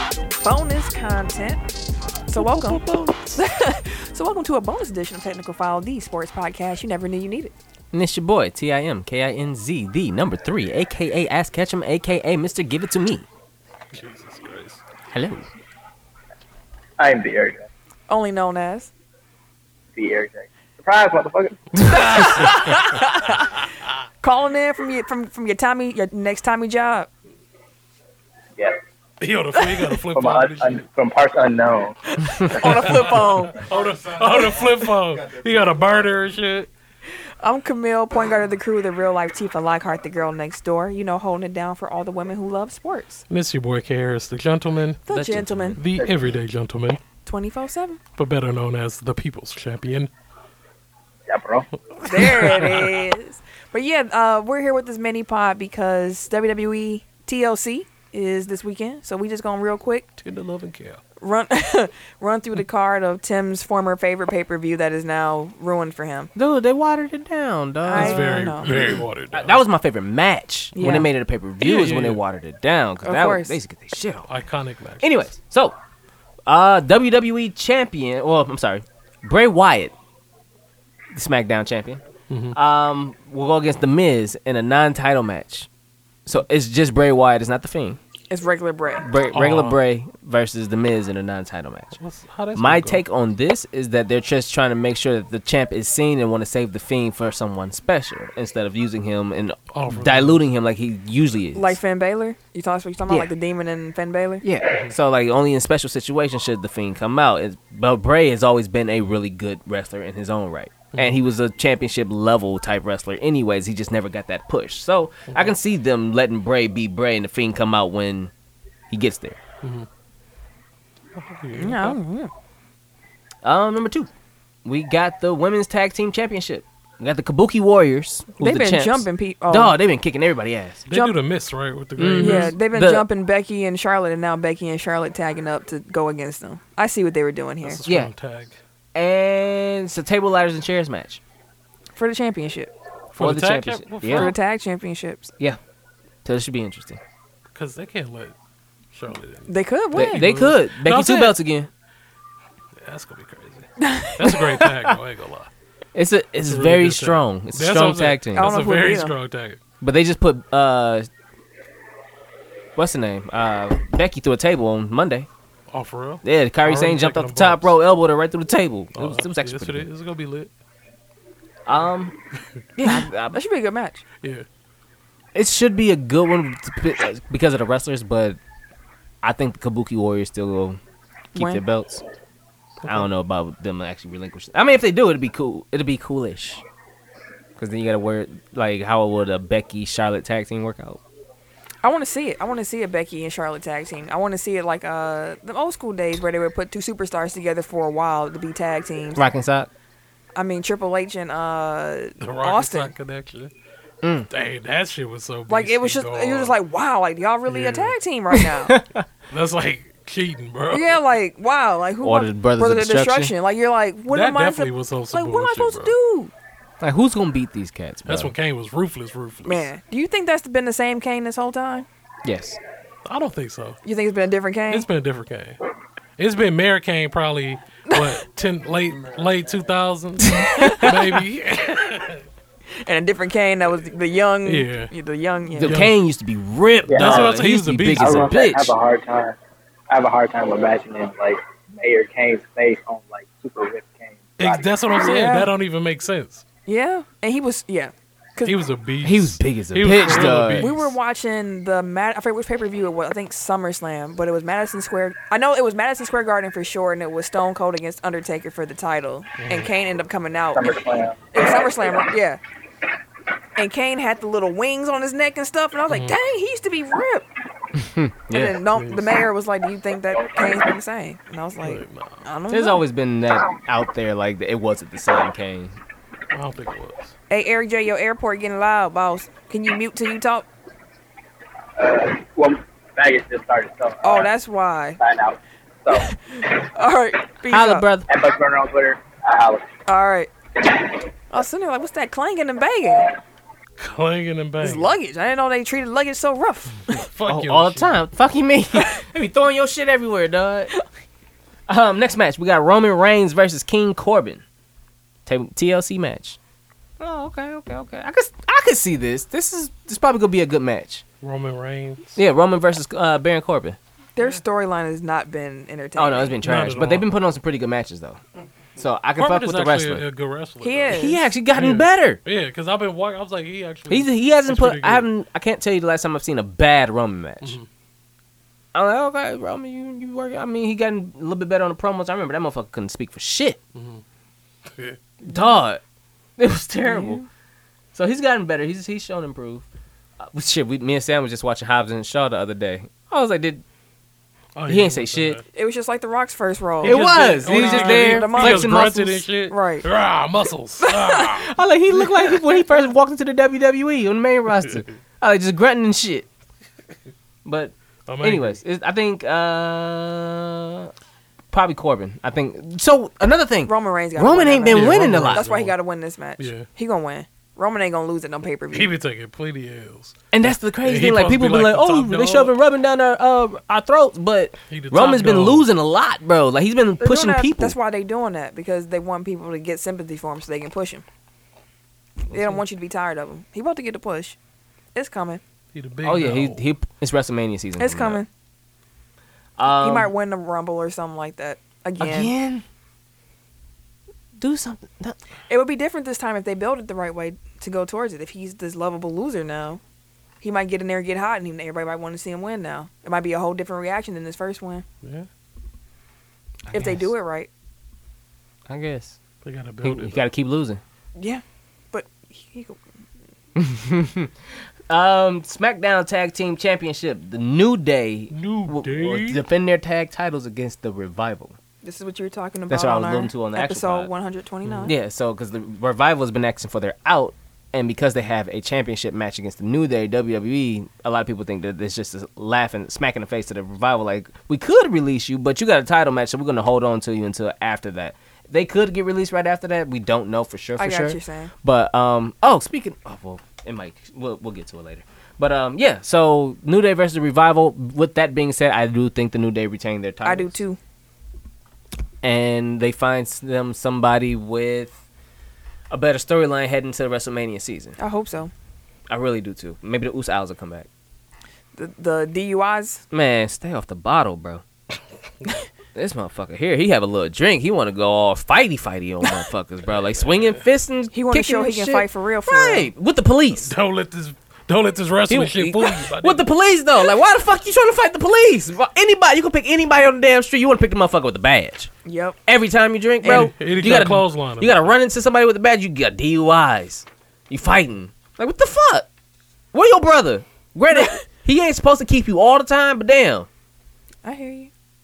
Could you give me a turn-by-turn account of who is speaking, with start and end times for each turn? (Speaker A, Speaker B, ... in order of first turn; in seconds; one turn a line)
Speaker A: 0.4-1.6
Speaker A: 2.3-2.8
Speaker B: 2.4-3.3
Speaker A: 3.3-7.5
Speaker C: 7.9-13.3
Speaker B: 13.9-14.8
Speaker C: 15.1-15.5
Speaker D: 17.0-17.7
Speaker A: 18.1-18.9
Speaker D: 19.9-22.3
Speaker B: 21.9-22.8
Speaker A: 21.9-23.4
Speaker A: 24.2-27.1
Speaker B: 29.2-30.9
Speaker A: 29.6-29.9
Speaker D: 30.1-32.7
Speaker A: 32.5-33.6
Speaker B: 32.8-36.7
Speaker A: 37.4-43.2
Speaker B: 43.3-45.0
Speaker A: 45.1-45.8
Speaker C: 45.1-45.8
Speaker B: 45.8-47.0
Speaker A: 47.2-48.0
Speaker B: 48.2-50.1
Speaker D: 51.3-51.7
Speaker B: 52.0-52.9
Speaker A: 52.0-60.0
Speaker C: 52.3-52.6
Speaker B: 60.2-61.0
Speaker A: 61.2-66.3
Speaker C: 66.3-74.3
Speaker A: 67.8-68.7
Speaker B: 67.9-69.6
Speaker A: 70.7-71.1
Speaker B: 71.6-72.2
Speaker A: 73.0-73.6
Speaker B: 74.2-75.2
Speaker C: 75.0-75.8
Speaker C: 76.5-79.9
Speaker C: 81.1-82.0
Speaker B: 82.3-82.5
Speaker C: 82.5-85.7
Speaker C: 86.2-88.0
Speaker A: 88.3-89.1
Speaker C: 89.0-92.0
Speaker B: 89.3-89.8
Speaker B: 92.0-93.0
Speaker C: 92.5-101.8
Speaker B: 99.7-100.4
Speaker A: 101.5-104.4
Speaker C: 104.4-118.3
Speaker B: 110.9-111.2
Speaker C: 118.9-119.4
Speaker B: 119.6-119.9
Speaker B: 121.1-122.0
Speaker A: 121.5-122.3
Speaker C: 123.4-124.1
Speaker C: 124.6-130.8
Speaker A: 128.4-129.8
Speaker B: 130.9-132.5
Speaker A: 130.9-131.2
Speaker C: 132.0-133.1
Speaker A: 132.2-137.8
Speaker B: 137.6-138.6
Speaker C: 138.9-141.2
Speaker A: 141.9-142.7
Speaker B: 143.1-144.3
Speaker C: 143.2-144.3
Speaker A: 144.1-145.3
Speaker C: 146.2-147.0
Speaker B: 147.5-148.3
Speaker B: 148.9-151.4
Speaker A: 149.5-150.3
Speaker C: 149.9-151.7
Speaker B: 152.8-155.5
Speaker A: 153.8-154.4
Speaker C: 155.9-158.5
Speaker B: 156.5-159.6
Speaker A: 158.3-159.1
Speaker C: 159.8-161.1
Speaker C: 162.8-165.3
Speaker B: 165.7-167.7
Speaker C: 166.2-169.9
Speaker B: 168.9-170.5
Speaker C: 171.7-172.1
Speaker C: 172.8-173.4
Speaker A: 173.3-174.0
Speaker C: 175.3-178.4
Speaker C: 179.2-180.8
Speaker A: 181.3-181.6
Speaker C: 181.3-182.0
Speaker B: 182.8-183.1
Speaker C: 182.8-186.6
Speaker C: 187.6-191.0
Speaker A: 191.8-199.2
Speaker C: 199.2-199.7
Speaker A: 200.3-202.9
Speaker B: 202.2-203.5
Speaker C: 204.0-204.3
Speaker B: 204.3-206.6
Speaker A: 205.5-208.8
Speaker B: 207.5-207.9
Speaker C: 208.3-209.0
Speaker B: 209.3-211.0
Speaker A: 210.7-216.3
Speaker C: 212.0-213.3
Speaker B: 214.1-215.9
Speaker C: 216.8-218.3
Speaker B: 218.1-219.7
Speaker A: 219.4-221.9
Speaker C: 222.2-222.6
Speaker B: 223.0-223.8
Speaker A: 223.8-224.9
Speaker B: 224.7-225.6
Speaker B: 226.2-232.2
Speaker C: 230.2-231.0
Speaker A: 232.8-235.8
Speaker B: 234.4-234.9
Speaker C: 235.6-238.7
Speaker B: 235.6-235.9
Speaker D: 236.9-237.4
Speaker B: 236.9-238.4
Speaker D: 237.9-239.3
Speaker D: 239.9-244.7
Speaker B: 244.4-246.4
Speaker A: 244.9-245.5
Speaker A: 246.7-248.5
Speaker B: 248.4-250.9
Speaker C: 249.0-250.7
Speaker A: 250.0-260.8
Speaker B: 259.4-259.7
Speaker D: 260.5-261.9
Speaker A: 261.3-262.4
Speaker A: 263.6-267.3
Speaker B: 265.9-266.1
Speaker C: 267.8-268.6
Speaker A: 268.3-272.8
Speaker B: 268.7-269.1
Speaker D: 270.2-270.6
Speaker B: 271.6-272.3
Speaker C: 272.5-275.8
Speaker B: 276.3-277.1
Speaker A: 277.3-280.5
Speaker D: 281.8-284.3
Speaker A: 284.0-285.0
Speaker D: 285.0-286.1
Speaker A: 286.1-287.9
Speaker C: 287.5-288.1
Speaker D: 288.1-289.6
Speaker A: 289.9-290.3
Speaker A: 291.3-293.1
Speaker B: 293.8-294.9
Speaker A: 294.6-297.1
Speaker B: 296.9-298.0
Speaker C: 297.3-300.7
Speaker C: 301.7-304.4
Speaker C: 305.2-306.4
Speaker C: 307.0-311.0
Speaker B: 311.2-312.1
Speaker C: 312.1-313.8
Speaker A: 314.1-316.4
Speaker C: 315.9-318.2
Speaker B: 316.4-317.1
Speaker C: 318.8-320.0
Speaker B: 319.2-325.1
Speaker A: 320.6-321.3
Speaker C: 320.9-322.2
Speaker C: 323.9-327.6
Speaker B: 327.4-327.7
Speaker C: 328.7-333.6
Speaker B: 333.7-334.0
Speaker C: 335.2-335.8
Speaker C: 336.4-337.2
Speaker A: 336.8-337.2
Speaker C: 337.9-339.6
Speaker C: 340.2-343.6
Speaker B: 344.6-345.4
Speaker C: 344.7-345.4
Speaker A: 345.5-349.9
Speaker B: 346.8-351.5
Speaker C: 346.8-349.2
Speaker C: 351.2-356.2
Speaker C: 357.4-360.9
Speaker B: 358.1-358.6
Speaker C: 361.5-365.4
Speaker A: 363.6-368.9
Speaker B: 364.7-365.7
Speaker B: 366.4-366.7
Speaker B: 368.7-372.5
Speaker C: 370.3-377.7
Speaker B: 374.7-375.7
Speaker A: 377.0-381.0
Speaker A: 382.3-384.4
Speaker A: 384.9-385.4
Speaker B: 385.7-386.6
Speaker C: 386.0-388.2
Speaker A: 387.8-388.3
Speaker C: 389.6-390.1
Speaker A: 389.6-392.3
Speaker C: 392.0-392.6
Speaker C: 394.4-395.2
Speaker A: 395.5-399.8
Speaker A: 400.4-404.8
Speaker C: 406.7-407.1
Speaker A: 406.7-407.5
Speaker C: 408.7-409.2
Speaker B: 409.4-410.2
Speaker C: 409.8-410.8
Speaker A: 411.1-412.8
Speaker C: 413.6-414.3
Speaker C: 414.9-421.6
Speaker B: 418.3-419.4
Speaker A: 421.8-424.9
Speaker C: 422.7-424.1
Speaker B: 424.6-424.9
Speaker C: 424.9-450.6
Speaker A: 440.8-441.5
Speaker A: 450.2-450.8
Speaker C: 452.2-455.0
Speaker C: 455.9-457.9
Speaker A: 458.0-458.5
Speaker C: 459.1-460.9
Speaker A: 461.7-463.0
Speaker C: 463.1-464.6
Speaker C: 465.9-473.7
Speaker B: 469.9-470.6
Speaker A: 471.1-472.9
Speaker B: 473.6-476.5
Speaker C: 475.3-481.9
Speaker A: 482.0-482.4
Speaker C: 482.5-489.1
Speaker A: 483.2-483.5
Speaker B: 483.2-484.9
Speaker C: 489.7-493.5
Speaker A: 494.2-494.7